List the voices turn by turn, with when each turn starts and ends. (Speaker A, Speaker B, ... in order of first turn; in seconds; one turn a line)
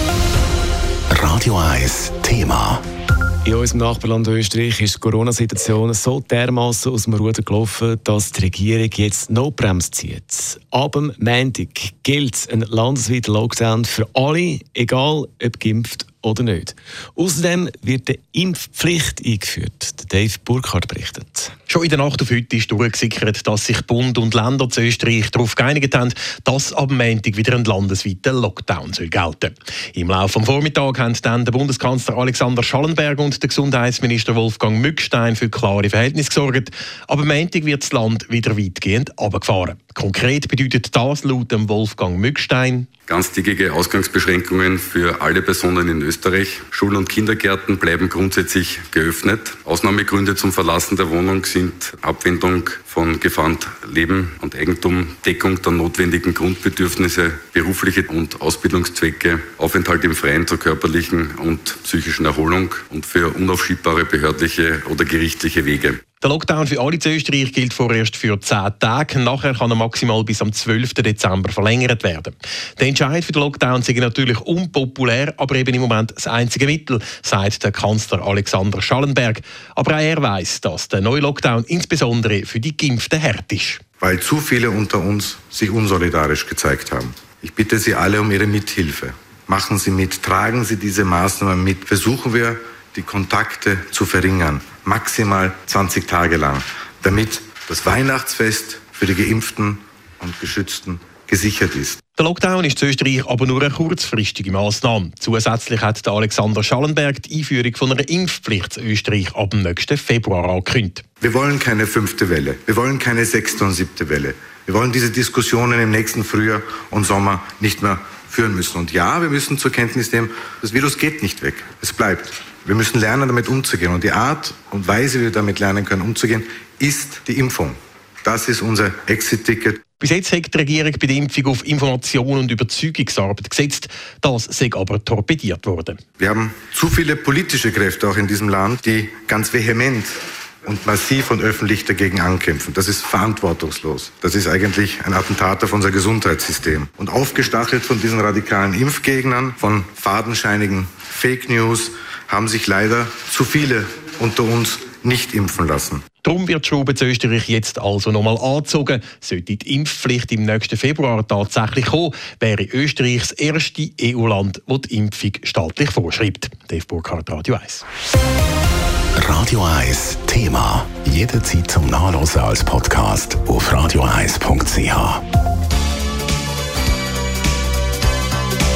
Speaker A: 1.1-2.8
Speaker B: 3.4-21.5
Speaker C: 21.7-42.9
Speaker D: 43.1-66.0
Speaker C: 66.2-83.8
Speaker E: 84.0-102.0
Speaker C: 102.2-111.0
Speaker E: 111.2-129.8
Speaker C: 130.0-136.0
Speaker E: 136.2-156.0
Speaker C: 156.2-167.8
Speaker A: 169.2-175.2